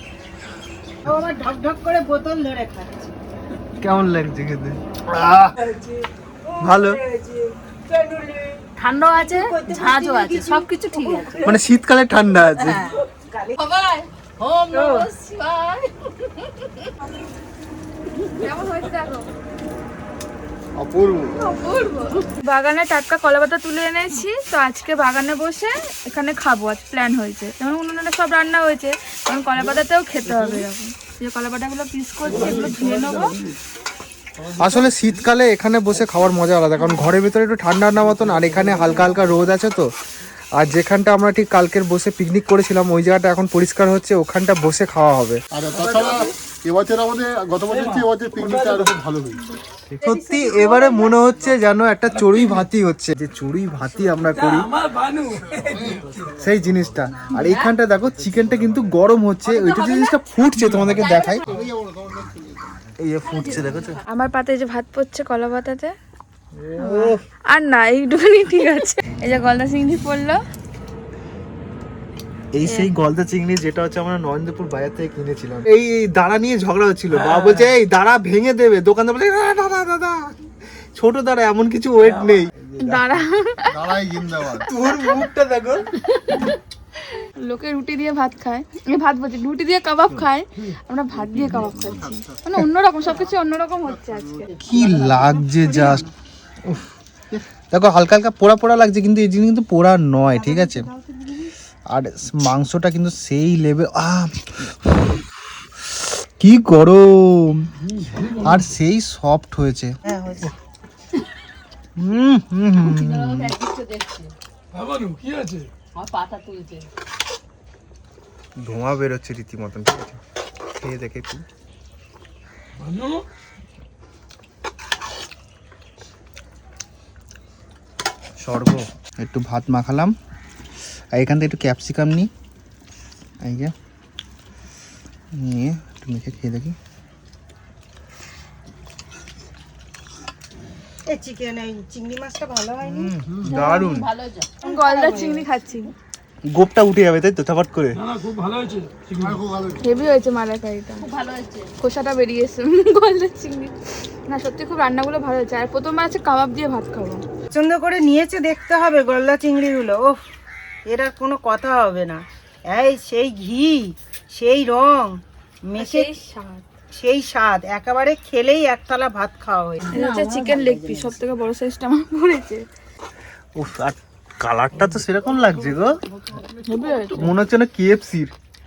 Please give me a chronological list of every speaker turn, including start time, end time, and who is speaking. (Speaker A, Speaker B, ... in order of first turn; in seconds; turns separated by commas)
Speaker A: 1.1-3.1, Speaker B: 3.8-5.5, Speaker A: 6.5-11.5, Speaker B: 6.6-7.0, Speaker C: 8.8-11.4, Speaker B: 11.4-12.9, Speaker C: 12.6-12.9, Speaker D: 13.6-14.1, Speaker C: 14.4-15.1, Speaker D: 14.7-15.9, Speaker A: 14.7-15.1, Speaker D: 18.4-19.3, Speaker E: 20.8-21.3, Speaker D: 21.4-33.4, Speaker F: 30.2-30.6, Speaker F: 32.2-33.6, Speaker F: 34.4-35.2, Speaker B: 34.6-39.9, Speaker F: 38.0-39.4, Speaker B: 40.6-45.4, Speaker E: 45.5-49.4, Speaker F: 45.7-46.3, Speaker F: 47.7-49.0, Speaker B: 49.9-54.7, Speaker D: 50.0-51.2, Speaker F: 52.0-52.7, Speaker F: 54.2-56.3, Speaker E: 55.7-56.0, Speaker B: 56.3-61.4, Speaker C: 59.5-60.2, Speaker C: 60.8-61.7, Speaker E: 61.4-62.8, Speaker B: 63.0-64.0, Speaker C: 63.2-64.0, Speaker D: 64.0-65.9, Speaker B: 66.5-67.2, Speaker D: 66.8-70.4, Speaker B: 72.5-80.3, Speaker D: 72.6-72.9, Speaker F: 77.1-77.7, Speaker B: 80.9-83.0, Speaker F: 82.0-82.4, Speaker D: 82.8-84.0, Speaker E: 83.7-84.7, Speaker B: 84.6-85.9, Speaker D: 84.9-85.1, Speaker D: 86.2-86.5, Speaker D: 87.4-94.5, Speaker E: 91.3-92.6, Speaker E: 93.9-94.5, Speaker B: 94.6-96.1, Speaker C: 94.7-95.4, Speaker A: 95.6-96.0, Speaker B: 97.7-100.8, Speaker A: 100.3-101.5, Speaker B: 101.9-105.2, Speaker B: 106.0-107.7, Speaker F: 107.9-108.7, Speaker B: 108.4-110.0, Speaker A: 110.0-110.5, Speaker B: 112.0-113.5, Speaker C: 112.7-114.3, Speaker F: 114.7-115.7, Speaker C: 115.9-116.9, Speaker B: 118.6-120.2, Speaker B: 120.8-121.4, Speaker F: 122.8-123.2, Speaker B: 128.4-130.1, Speaker B: 131.1-132.3, Speaker B: 133.4-133.7, Speaker B: 135.3-136.8, Speaker A: 141.1-143.1, Speaker B: 142.8-144.1, Speaker E: 143.2-143.6, Speaker C: 143.5-144.6, Speaker D: 144.6-145.9, Speaker A: 144.6-145.4, Speaker B: 146.5-148.0, Speaker F: 147.9-149.4, Speaker E: 149.2-149.9, Speaker D: 149.8-151.1, Speaker C: 151.0-151.7, Speaker D: 151.8-153.7, Speaker D: 154.3-157.2, Speaker A: 157.5-160.2, Speaker A: 160.9-166.1, Speaker D: 165.8-166.6, Speaker A: 166.9-169.8, Speaker C: 169.8-171.2, Speaker D: 169.9-172.7, Speaker B: 173.6-176.0, Speaker F: 174.8-175.8, Speaker C: 176.3-177.1, Speaker D: 176.7-177.2, Speaker B: 177.1-178.3